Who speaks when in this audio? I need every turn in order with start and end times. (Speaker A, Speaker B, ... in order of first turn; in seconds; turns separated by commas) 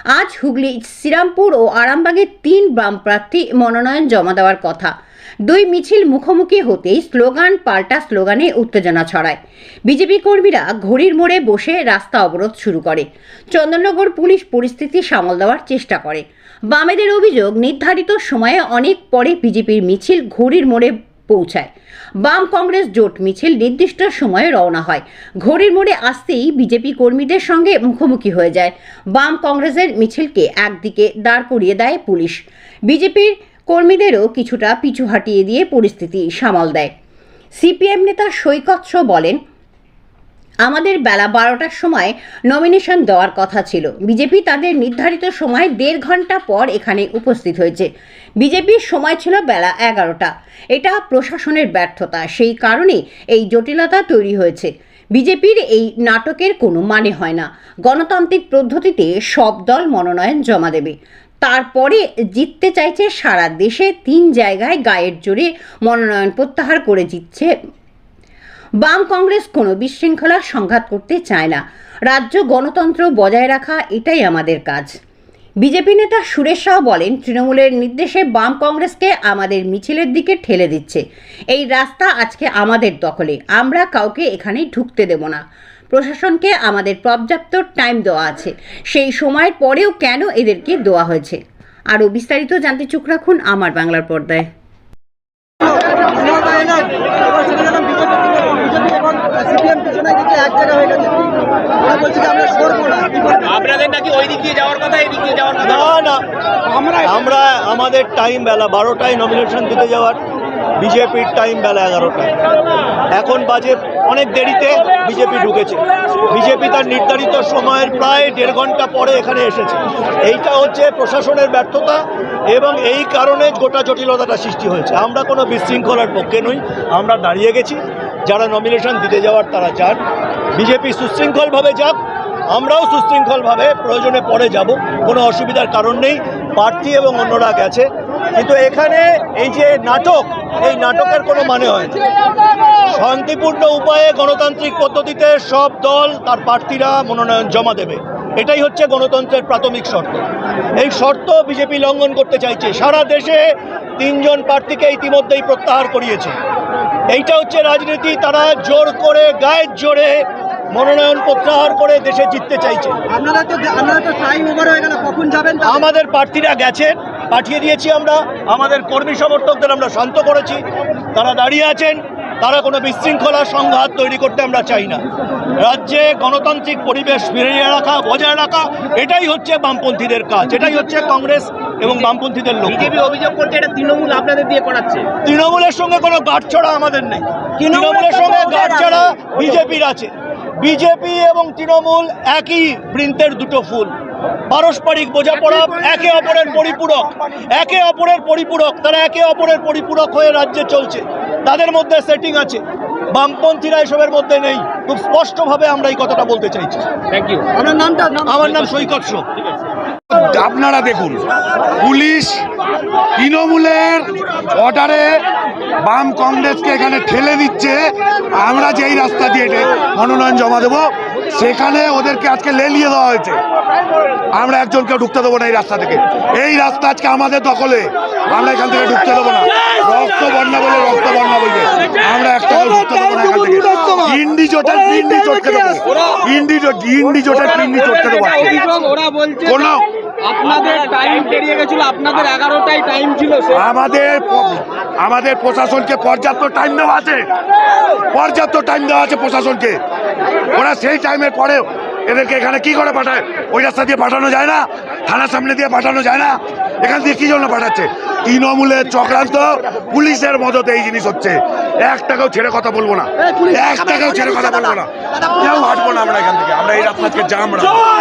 Speaker A: 0.1-4.9, Speaker A: 5.5-21.7, Speaker A: 22.2-36.9, Speaker A: 37.6-39.4, Speaker A: 40.7-47.9, Speaker A: 48.4-67.5, Speaker A: 68.8-74.9, Speaker A: 75.6-91.4, Speaker A: 91.9-94.5, Speaker B: 95.6-101.1, Speaker B: 101.8-103.5, Speaker C: 103.5-105.8, Speaker D: 105.6-106.2, Speaker D: 107.0-110.2, Speaker D: 110.8-112.3, Speaker D: 113.2-115.8, Speaker D: 116.3-130.0, Speaker D: 130.6-132.0, Speaker D: 132.5-142.0, Speaker D: 142.9-150.3, Speaker D: 150.8-153.4, Speaker D: 154.0-156.3, Speaker D: 157.1-160.2, Speaker D: 160.7-163.0, Speaker B: 163.1-165.7, Speaker D: 165.7-170.6, Speaker D: 171.1-175.0, Speaker D: 175.6-183.0, Speaker C: 182.7-185.1, Speaker D: 185.3-190.1, Speaker D: 190.6-193.9, Speaker D: 194.5-202.6, Speaker D: 203.1-206.8, Speaker C: 207.2-207.5, Speaker B: 207.6-208.4, Speaker D: 208.3-209.2, Speaker E: 210.1-211.2, Speaker E: 211.8-212.4, Speaker E: 213.2-215.1, Speaker E: 215.8-217.8, Speaker E: 218.3-223.4, Speaker E: 224.3-238.7, Speaker C: 238.5-239.4, Speaker E: 239.4-239.8, Speaker C: 240.3-243.5, Speaker E: 243.5-247.3, Speaker E: 248.1-249.8, Speaker E: 250.5-267.8